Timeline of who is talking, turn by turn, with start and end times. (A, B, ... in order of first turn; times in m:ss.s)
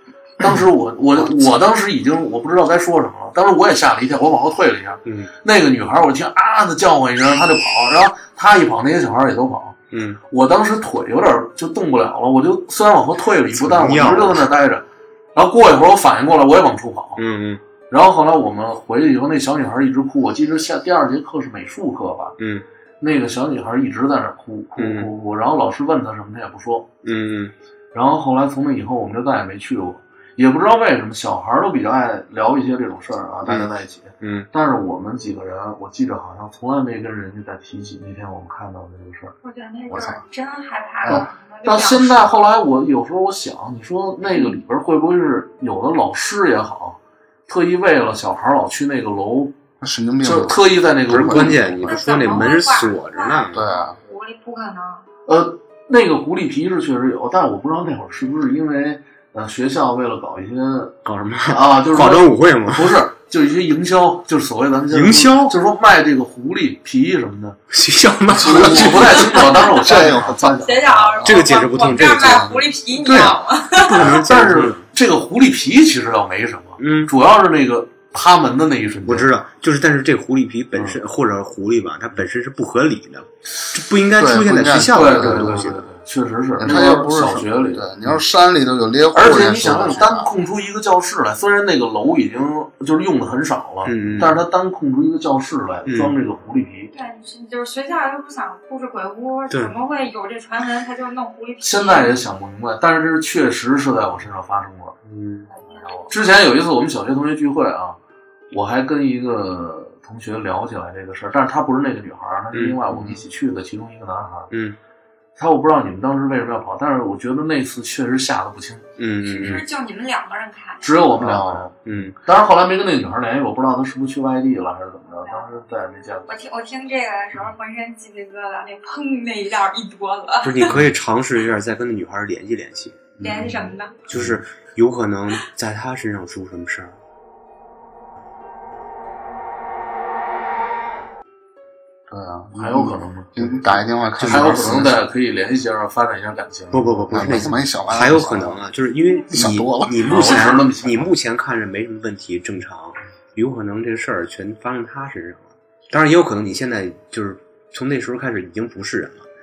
0:00.4-0:09.8 A
0:05.0-0:05.3 B
0:09.9-0:10.2 B
0:10.3-0:17.2 A
0:13.5-0:14.5 B
0:17.2-0:17.6 B
0:17.9-0:22.4 A
0:22.4-0:22.6 B
0:23.0-0:26.9 A
0:24.8-0:25.1 B
0:27.0-0:27.5 B
0:27.9-0:39.4 A
0:33.4-0:34.5 B
0:39.4-0:42.3 C
0:39.9-0:40.2 D
0:41.0-0:49.6 A
0:49.8-0:51.6 D
0:50.2-0:51.9 A
0:51.1-0:53.6 B
0:51.8-0:55.0 C
0:53.5-0:54.0 D
0:55.2-1:07.6 A
1:01.0-1:03.0 B
1:04.9-1:05.5 B
1:07.7-1:09.7 B
1:08.3-1:09.1 D
1:08.3-1:11.4 A
1:09.2-1:14.1 C
1:09.7-1:10.6 D
1:11.2-1:14.9 B
1:13.0-1:13.4 A
1:14.0-1:19.3 A
1:16.8-1:17.1 B
1:19.0-1:25.9 B
1:20.7-1:21.0 A
1:24.2-1:25.7 D
1:24.9-1:28.2 A
1:26.6-1:30.3 D
1:29.1-1:36.9 A
1:33.8-1:34.4 B
1:35.9-1:36.1 B
1:36.9-1:42.2 C
1:39.5-1:39.8 B
1:41.6-1:45.0 A
1:45.0-1:45.5 B
1:45.5-1:46.1 C
1:46.1-1:48.0 A
1:48.5-1:54.5 A
1:52.5-1:53.2 B
1:54.5-1:54.8 B
1:55.4-1:59.6 A
1:59.0-1:59.6 B
1:59.3-2:01.1 C
2:00.8-2:06.3 A
2:01.2-2:02.2 B
2:05.2-2:05.6 C
2:06.3-2:10.7 C
2:10.4-2:13.1 B
2:13.2-2:13.5 D
2:13.2-2:14.0 C
2:14.1-2:17.0 B
2:22.1-2:25.0 D
2:22.5-2:27.5 A
2:24.2-2:24.9 B
2:26.7-2:39.3 B
2:27.1-2:28.6 D
2:29.3-2:30.0 D
2:30.0-2:31.1 A